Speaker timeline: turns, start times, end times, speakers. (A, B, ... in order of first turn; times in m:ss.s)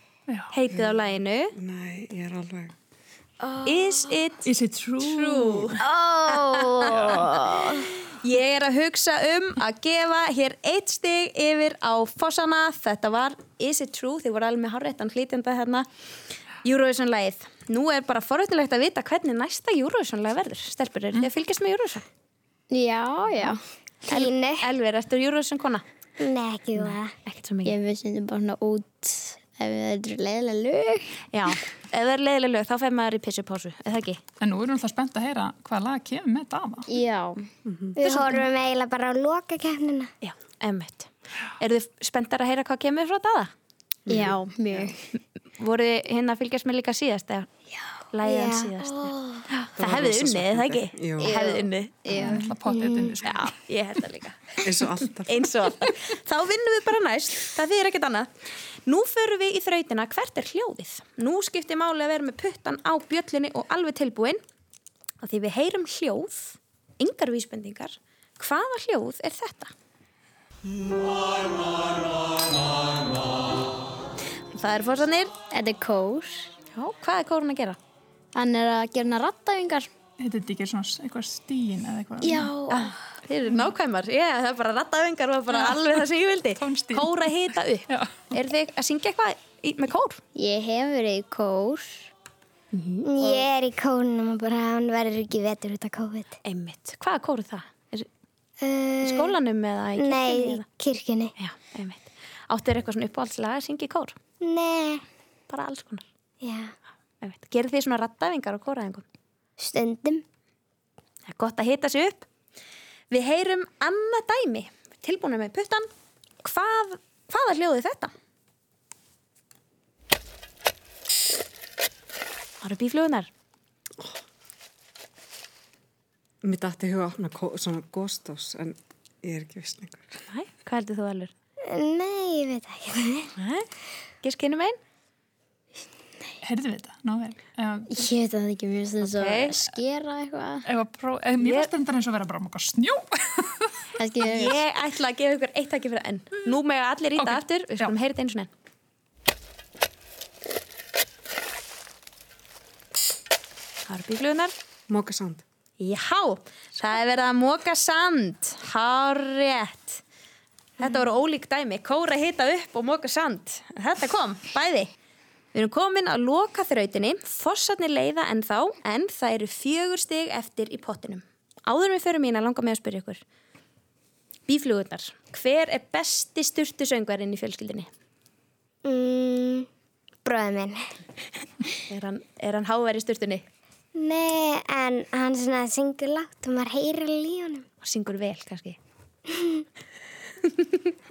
0:00.5-0:01.5 A
0:01.6-0:02.7 B
0:03.4-0:03.9 C
0:03.6-0:15.9 A
0:04.4-0:05.7 D
0:05.8-0:07.7 C
0:16.6-0:22.0 A
0:22.7-0:23.6 E
0:24.0-0:24.7 C
0:24.0-0:25.8 A
0:26.2-0:27.1 C
0:26.8-0:27.8 A
0:27.6-0:31.2 E
0:31.3-0:34.2 A
0:34.4-0:36.9 D
0:36.9-0:37.5 E
0:37.7-0:38.0 B
0:38.0-0:40.1 C
0:38.0-0:38.5 A
0:40.2-0:43.5 A
0:44.1-0:44.9 B
0:44.1-0:45.0 E
0:45.6-0:47.5 A
0:48.1-0:52.3 A
0:48.2-0:49.4 C
0:49.8-0:51.4 B
0:51.2-0:52.4 E
0:52.1-0:53.5 D
0:52.6-0:53.2 C
0:53.2-0:54.7 A
0:54.6-0:55.4 B
0:55.2-0:58.3 A
0:58.9-1:04.4 A
1:05.2-1:09.7 A
1:14.5-1:15.3 A
1:15.5-1:16.5 E
1:16.7-1:17.8 A
1:18.4-1:19.9 E
1:20.2-1:22.6 D
1:22.2-1:22.9 E
1:22.7-1:30.2 A
1:26.6-1:27.2 D
1:27.9-1:28.3 D
1:30.4-1:32.1 E
1:32.7-1:33.5 A
1:33.0-1:36.4 C
1:36.4-1:38.1 A
1:38.6-1:39.4 C
1:39.0-1:40.6 A
1:40.0-1:41.3 C
1:41.4-1:44.2 A
1:44.4-1:45.0 C
1:45.5-1:46.0 A
1:46.4-1:46.7 C
1:47.2-1:49.0 A
1:49.6-1:50.2 C
1:51.3-1:52.3 A
1:53.1-1:55.9 A
1:56.4-1:58.1 A
2:02.6-2:03.3 A
2:06.4-2:10.1 B
2:10.3-2:11.3 A
2:11.7-2:13.3 C
2:13.4-2:13.7 A
2:14.2-2:14.8 A
2:16.4-2:18.0 D
2:17.9-2:20.7 E
2:19.0-2:19.6 A
2:20.7-2:23.7 D
2:21.4-2:21.7 A
2:24.0-2:24.6 E
2:24.2-2:28.5 A
2:27.2-2:27.9 D
2:33.9-2:34.5 A
2:34.9-2:35.4 B
2:35.8-2:40.0 A
2:40.8-2:44.9 A
2:45.5-2:53.2 A
2:54.5-2:57.9 A
2:58.8-2:59.7 C
3:00.2-3:00.9 C
3:01.9-3:03.4 A
3:04.0-3:07.7 C
3:07.8-3:08.8 A
3:10.5-3:10.8 A